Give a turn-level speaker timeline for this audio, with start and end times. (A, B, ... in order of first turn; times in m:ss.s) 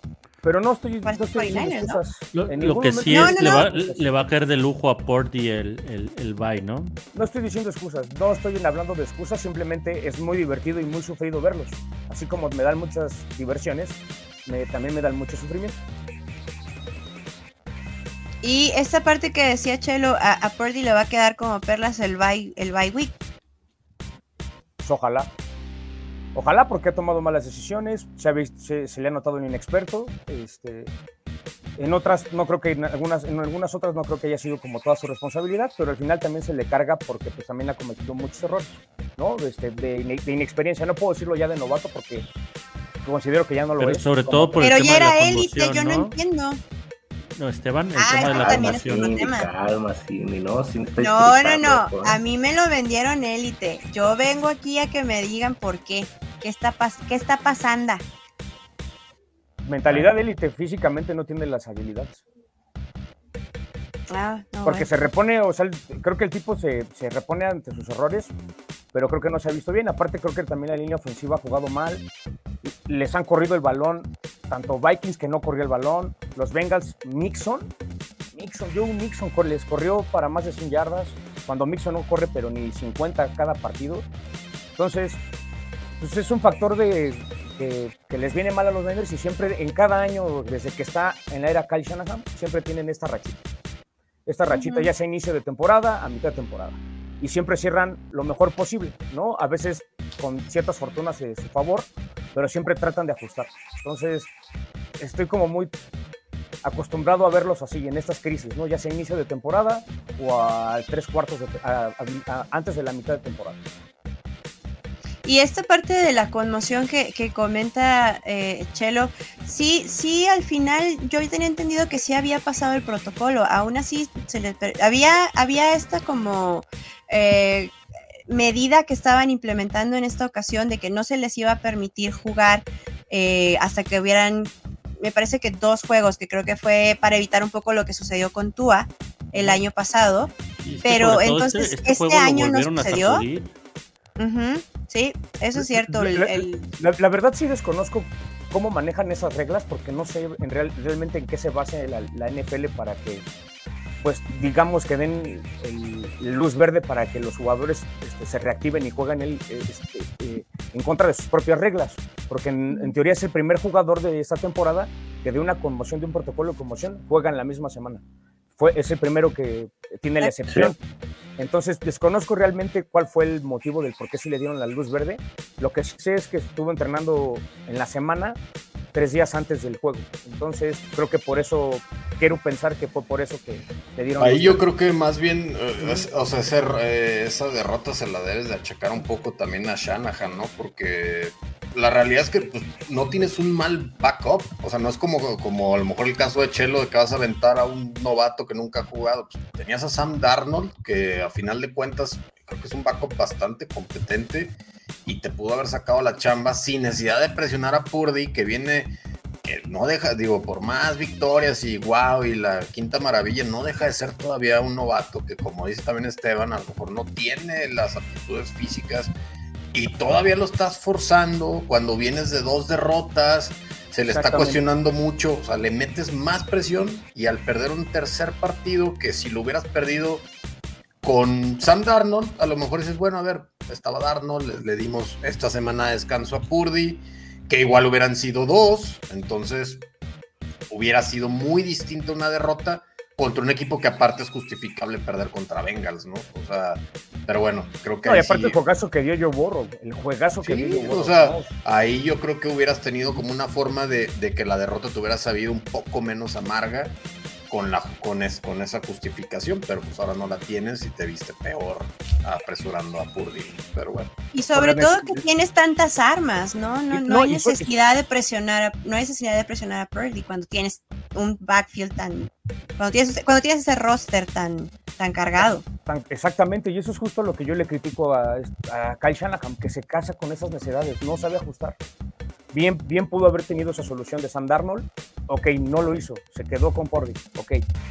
0:00.4-0:04.1 A
0:01.0-0:02.0 B
0:02.3-0:07.0 C
0:03.1-0:03.7 B
0:07.1-0:15.8 A
0:18.4-0:23.1 B
0:24.8-0:25.3 A
0:26.4-0:30.9 A
0:31.8-0:42.3 A
0:43.0-0:44.7 A
0:43.8-0:46.2 C
0:44.6-0:46.6 B
0:47.4-0:49.1 C
0:48.0-0:49.5 B
0:48.2-0:52.2 D
0:51.0-0:58.0 B
0:59.6-1:02.2 A
1:04.1-1:04.9 B
1:04.6-1:08.3 A
1:08.9-1:12.0 A
1:12.6-1:17.7 A
1:18.3-1:24.1 A
1:24.8-1:25.2 A
1:26.0-1:33.4 A
1:34.3-1:44.3 A
1:34.5-1:34.9 B
1:45.0-1:45.7 A
1:46.6-1:53.6 A
1:55.2-2:07.8 B
2:08.3-2:20.3 B
2:20.6-2:23.5 C
2:20.8-2:23.2 B
2:24.2-2:26.7 B
2:25.6-2:33.2 A
2:34.0-2:48.0 A
2:48.6-2:50.8 A
2:50.4-2:50.7 D
2:51.4-2:58.4 A
2:58.9-3:04.6 A
3:04.2-3:39.1 E
3:05.8-3:06.1 A
3:39.7-3:50.3 E
3:44.1-3:44.6 A
3:51.0-3:59.9 E
4:00.7-4:08.6 E
4:08.0-4:11.5 A
4:10.4-4:24.1 E
4:24.3-4:35.6 B
4:24.5-4:25.2 A
4:26.9-4:27.7 A
4:35.4-4:41.8 A
4:42.5-4:47.6 A